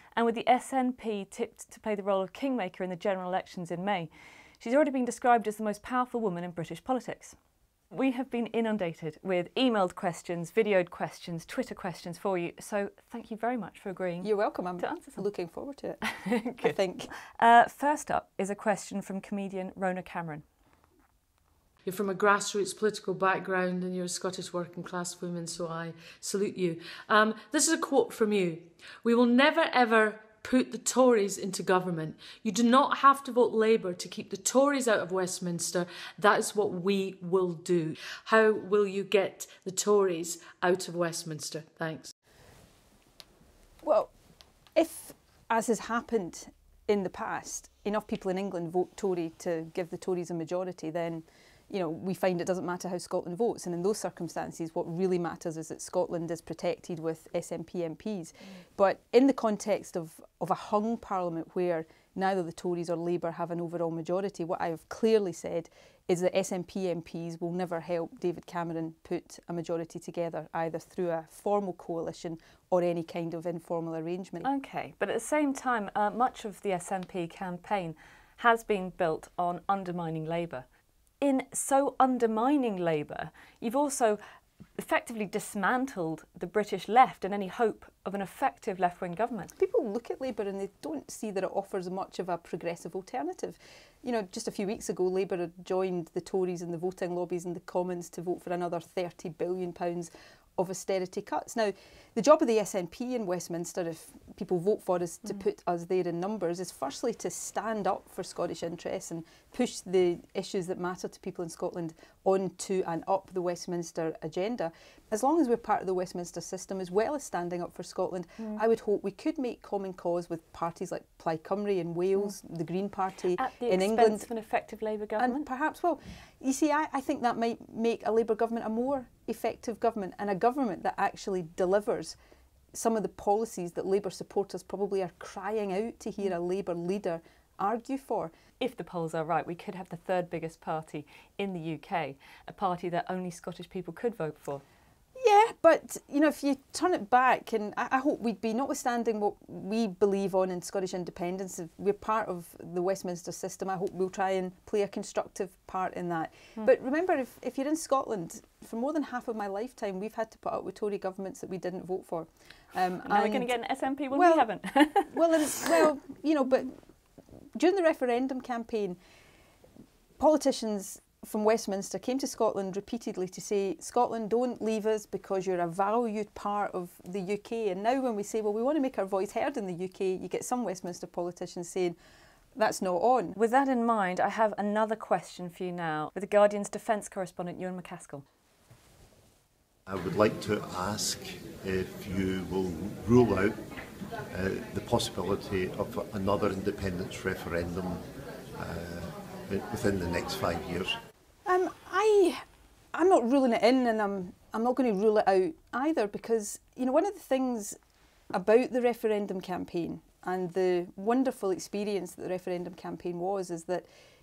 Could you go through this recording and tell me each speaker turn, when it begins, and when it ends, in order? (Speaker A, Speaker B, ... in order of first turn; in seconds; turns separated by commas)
Speaker A: 0.1-7.4, Speaker A: 7.9-15.2, Speaker B: 14.2-16.0, Speaker A: 16.1-16.8, Speaker B: 16.6-17.1, Speaker A: 17.3-20.4, Speaker C: 21.8-42.1, Speaker B: 43.8-44.1, Speaker B: 44.7-74.5, Speaker A: 74.4-80.6, Speaker A: 81.2-84.2, Speaker A: 84.8-89.5, Speaker B: 89.6-124.3, Speaker A: 123.3-125.4, Speaker B: 125.2-132.2, Speaker B: 132.7-138.3, Speaker A: 138.6-144.6, Speaker B: 145.2-163.5, Speaker A: 163.0-165.7, Speaker B: 164.1-166.7, Speaker B: 167.5-169.0, Speaker B: 170.2-181.9, Speaker B: 182.5-183.4, Speaker A: 183.3-188.2, Speaker D: 189.9-193.6, Speaker D: 194.3-198.0, Speaker D: 198.5-201.0, Speaker B: 201.4-202.4, Speaker B: 202.9-207.8, Speaker B: 208.3-213.9